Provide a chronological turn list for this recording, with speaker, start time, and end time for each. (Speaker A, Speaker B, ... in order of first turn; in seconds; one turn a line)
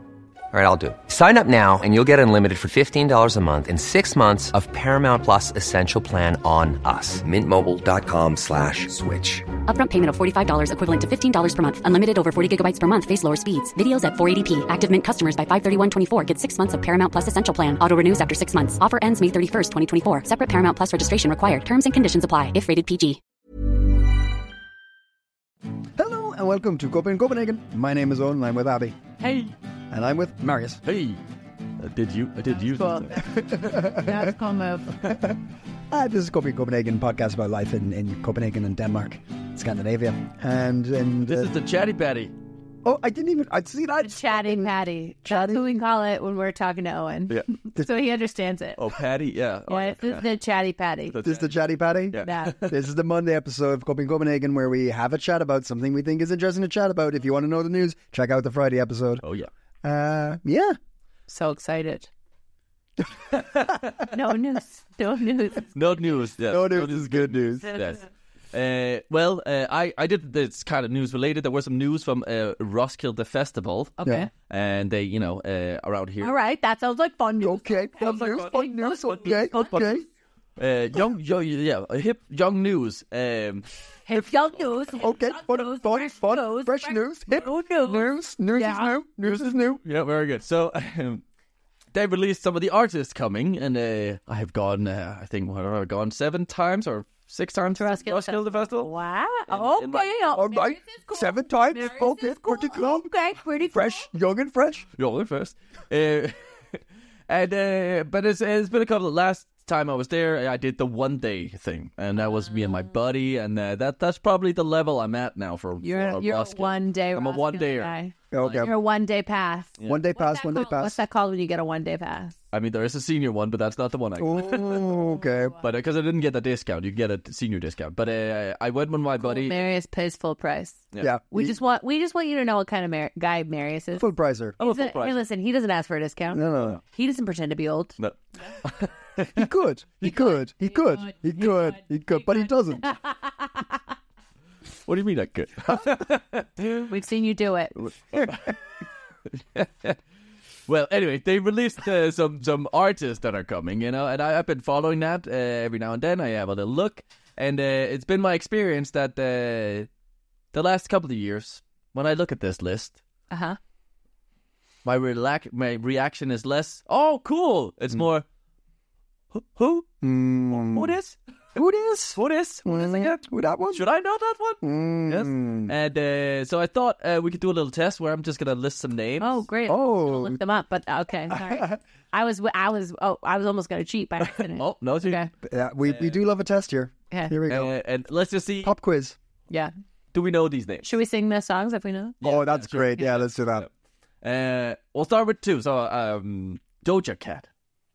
Speaker A: 0.5-9.5
Speaker B: 9.7-23.2
Speaker C: 26.0-29.0
Speaker D: 29.2-29.5
Speaker C: 29.9-30.8
Speaker D: 30.9-31.2
Speaker D: 31.8-33.3
Speaker E: 32.6-34.9
Speaker C: 33.3-34.3
Speaker C: 34.9-35.4
Speaker C: 35.9-41.5
Speaker D: 41.3-42.3
Speaker C: 42.8-44.7
Speaker E: 44.0-48.9
Speaker C: 45.2-45.6
Speaker D: 48.8-50.3
Speaker E: 49.7-51.2
Speaker D: 51.1-51.5
Speaker C: 51.2-59.2
Speaker D: 52.1-52.9
Speaker E: 52.2-52.6
Speaker D: 59.2-59.5
Speaker C: 59.8-60.8
Speaker E: 61.3-62.1
Speaker E: 64.1-65.7
Speaker D: 65.8-76.3
Speaker C: 66.5-67.8
Speaker E: 74.0-74.3
Speaker E: 76.2-79.9
Speaker C: 77.4-80.0
Speaker D: 78.1-79.9
Speaker D: 80.6-83.7
Speaker E: 84.1-88.9
Speaker C: 85.0-89.8
Speaker D: 89.8-91.2
Speaker D: 91.9-98.9
Speaker E: 97.8-104.1
Speaker D: 99.5-100.2
Speaker C: 100.3-103.1
Speaker C: 103.7-104.9
Speaker D: 105.0-106.4
Speaker D: 107.3-118.7
Speaker E: 115.8-122.3
Speaker C: 118.3-118.7
Speaker C: 119.8-121.0
Speaker D: 122.5-129.6
Speaker C: 124.2-125.6
Speaker E: 129.2-134.1
Speaker C: 131.0-131.6
Speaker C: 134.0-134.6
Speaker D: 134.6-135.2
Speaker E: 134.6-138.0
Speaker C: 136.3-136.8
Speaker D: 138.0-139.5
Speaker C: 139.3-142.9
Speaker E: 142.8-143.7
Speaker D: 144.9-146.9
Speaker E: 146.9-147.8
Speaker D: 147.8-148.6
Speaker D: 149.3-150.0
Speaker D: 150.7-159.9
Speaker D: 160.5-163.0
Speaker E: 163.3-163.6
Speaker D: 164.8-168.2
Speaker D: 169.3-169.9
Speaker C: 170.0-170.9
Speaker D: 170.6-171.2
Speaker C: 171.6-173.8
Speaker D: 172.2-179.4
Speaker C: 174.6-175.7
Speaker E: 179.2-185.3
Speaker C: 179.7-180.4
Speaker C: 181.3-181.8
Speaker D: 184.3-185.2
Speaker C: 185.4-187.7
Speaker D: 185.9-186.2
Speaker E: 187.1-187.4
Speaker D: 187.5-188.7
Speaker C: 188.6-189.2
Speaker D: 190.1-190.9
Speaker E: 190.8-192.2
Speaker C: 192.2-193.7
Speaker D: 192.2-193.7
Speaker D: 194.2-197.5